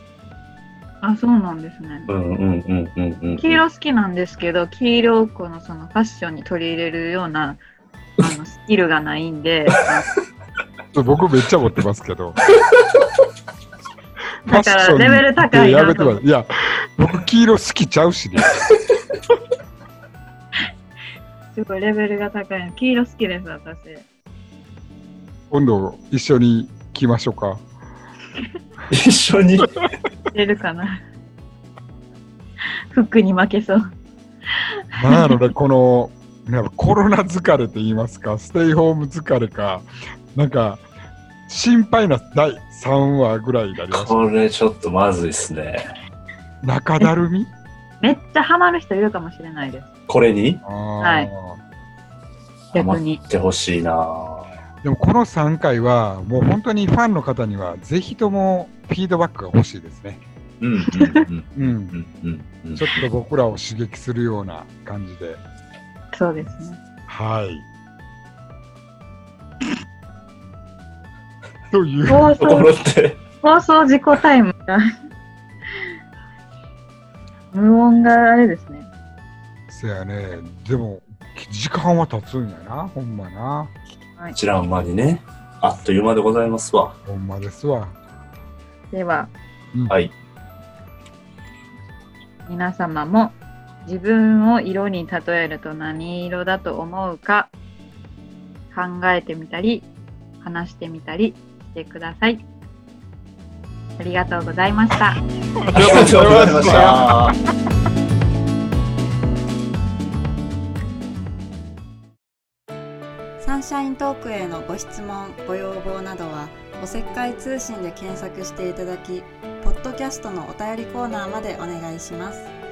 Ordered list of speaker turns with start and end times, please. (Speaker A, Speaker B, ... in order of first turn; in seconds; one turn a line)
Speaker A: 1.0-2.1
Speaker B: 2.1-3.6
Speaker A: 3.4-7.6
Speaker A: 8.2-10.1
Speaker C: 10.9-12.4
Speaker C: 14.4-18.6
Speaker A: 14.5-16.2
Speaker A: 21.5-24.1
Speaker C: 25.5-27.6
Speaker B: 28.9-29.8
Speaker A: 30.3-31.0
Speaker A: 32.9-33.8
Speaker C: 35.0-40.8
Speaker A: 35.1-35.4
Speaker C: 41.5-44.2
Speaker B: 43.9-45.8
Speaker C: 46.6-47.5
Speaker A: 48.0-49.9
Speaker B: 50.1-50.6
Speaker C: 50.6-51.6
Speaker A: 51.0-51.3
Speaker A: 52.7-53.2
Speaker B: 52.7-54.5
Speaker C: 54.8-60.2
Speaker B: 60.6-63.0
Speaker C: 61.5-62.0
Speaker C: 62.8-65.4
Speaker A: 66.1-66.8
Speaker C: 67.1-67.7
Speaker C: 71.7-72.4
Speaker A: 72.0-72.7
Speaker B: 72.4-73.2
Speaker A: 73.4-74.8
Speaker A: 77.5-78.9
Speaker C: 79.7-83.7
Speaker B: 84.3-86.9
Speaker C: 87.1-88.0
Speaker A: 88.9-89.3
Speaker A: 92.5-97.5
Speaker A: 98.7-99.9
Speaker A: 100.4-102.4
Speaker A: 104.0-105.2
Speaker C: 105.6-107.3
Speaker B: 105.7-107.3
Speaker D: 113.4-122.5